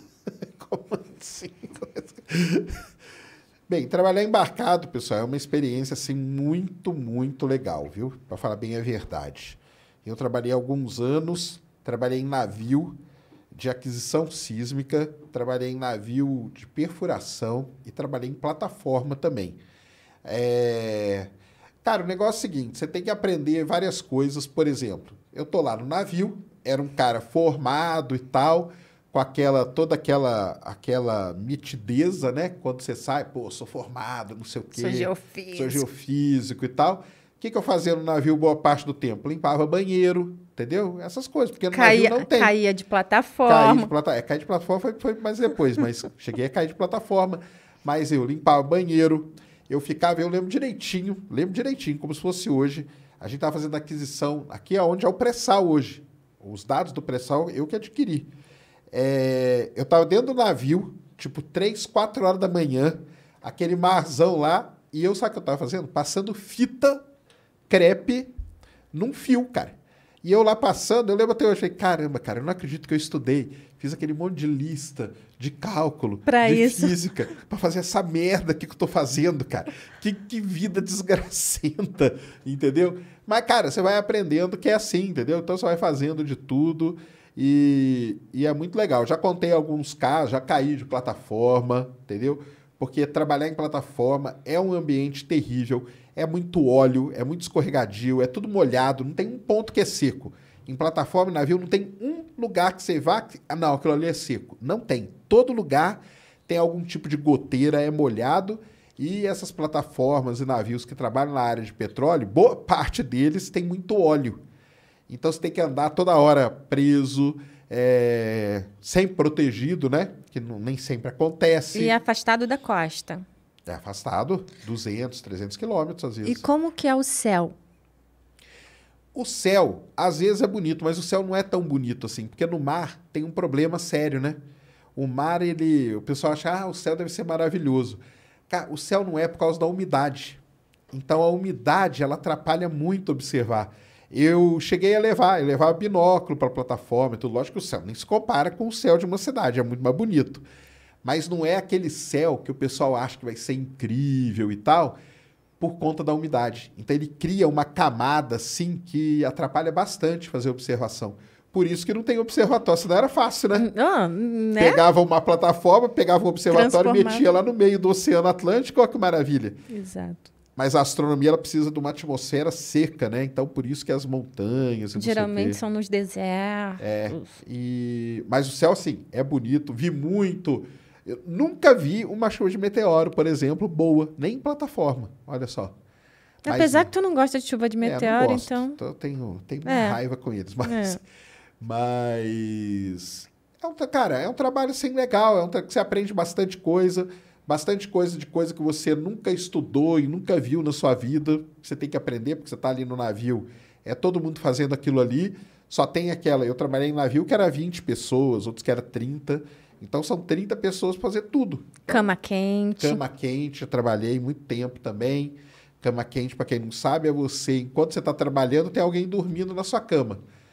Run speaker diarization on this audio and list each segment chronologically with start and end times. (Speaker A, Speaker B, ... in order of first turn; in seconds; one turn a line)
Speaker A: 0.5-2.7
Speaker A: 3.7-12.9
Speaker A: 13.5-19.6
Speaker A: 20.2-21.3
Speaker A: 21.8-42.5
Speaker B: 34.7-35.9
Speaker B: 41.7-43.9
Speaker A: 43.5-58.3
Speaker A: 58.9-67.0
Speaker A: 67.7-68.3
Speaker A: 68.9-114.4
Speaker B: 76.3-76.9
Speaker A: 115.1-122.0
Speaker B: 121.7-123.2
Speaker A: 123.7-126.5
Speaker B: 126.2-127.6
Speaker A: 129.2-134.4
Speaker A: 134.9-150.4
Speaker A: 151.0-155.0
Speaker A: 155.6-163.7
Speaker B: 163.6-164.8
Speaker A: 164.6-169.6
Speaker B: 166.5-167.3
Speaker B: 169.7-170.3
Speaker A: 170.6-175.6
Speaker B: 175.0-177.4
Speaker A: 176.8-185.7
Speaker B: 186.4-188.8
Speaker A: 186.5-186.9
Speaker A: 187.8-191.0
Speaker B: 189.7-190.0
Speaker B: 190.6-191.0
Speaker A: 191.6-212.1
Speaker B: 211.9-213.0
Speaker A: 212.8-220.2